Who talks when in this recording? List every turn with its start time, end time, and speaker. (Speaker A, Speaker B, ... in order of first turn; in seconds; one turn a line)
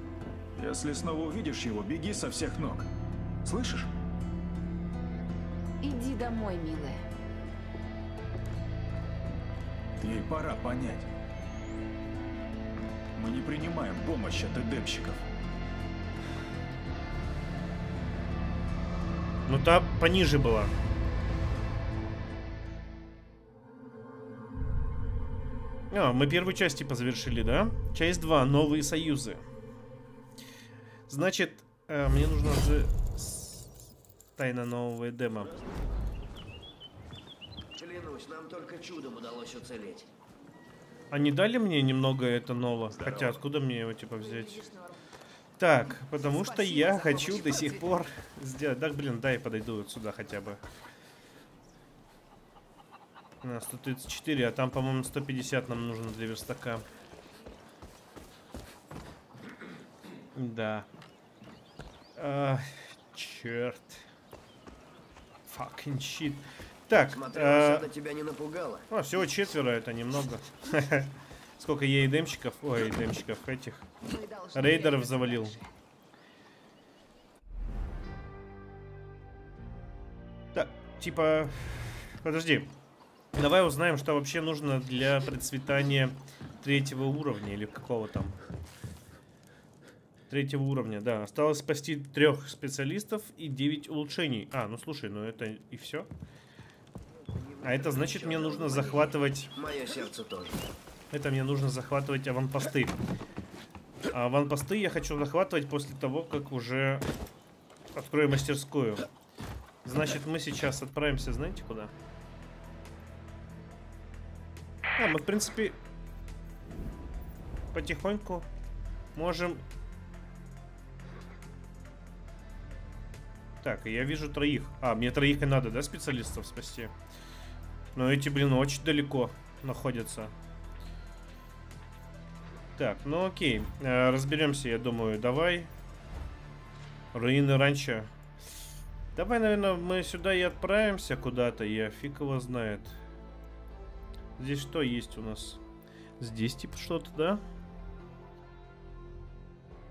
Speaker A: 0.6-2.9
Speaker A: 3.4-3.9
Speaker B: 5.8-7.0
Speaker A: 10.0-11.1
Speaker A: 13.2-15.2
Speaker C: 19.5-20.7
Speaker C: 25.9-29.4
Speaker C: 31.1-33.8
Speaker C: 34.4-35.5
Speaker D: 35.4-35.6
Speaker D: 37.8-40.1
Speaker C: 41.1-44.7
Speaker D: 42.9-43.4
Speaker B: 44.2-44.9
Speaker C: 45.6-50.6
Speaker B: 46.7-47.0
Speaker C: 53.4-56.8
Speaker C: 60.3-60.9
Speaker C: 62.2-64.0
Speaker C: 65.5-67.9
Speaker D: 67.0-68.8
Speaker C: 68.9-73.8
Speaker B: 74.0-75.6
Speaker C: 74.5-75.5
Speaker C: 80.5-82.7
Speaker C: 83.3-88.4
Speaker C: 90.3-96.1
Speaker D: 97.3-100.7
Speaker C: 97.6-99.5
Speaker C: 101.1-103.0
Speaker C: 104.1-107.0
Speaker C: 107.9-109.0
Speaker C: 109.8-111.9
Speaker C: 115.0-115.8
Speaker C: 117.7-118.5
Speaker C: 119.1-119.6
Speaker C: 123.6-126.9
Speaker C: 127.9-130.3
Speaker C: 132.8-135.7
Speaker C: 137.1-138.1
Speaker C: 139.2-143.0
Speaker C: 144.4-145.6
Speaker C: 146.2-147.4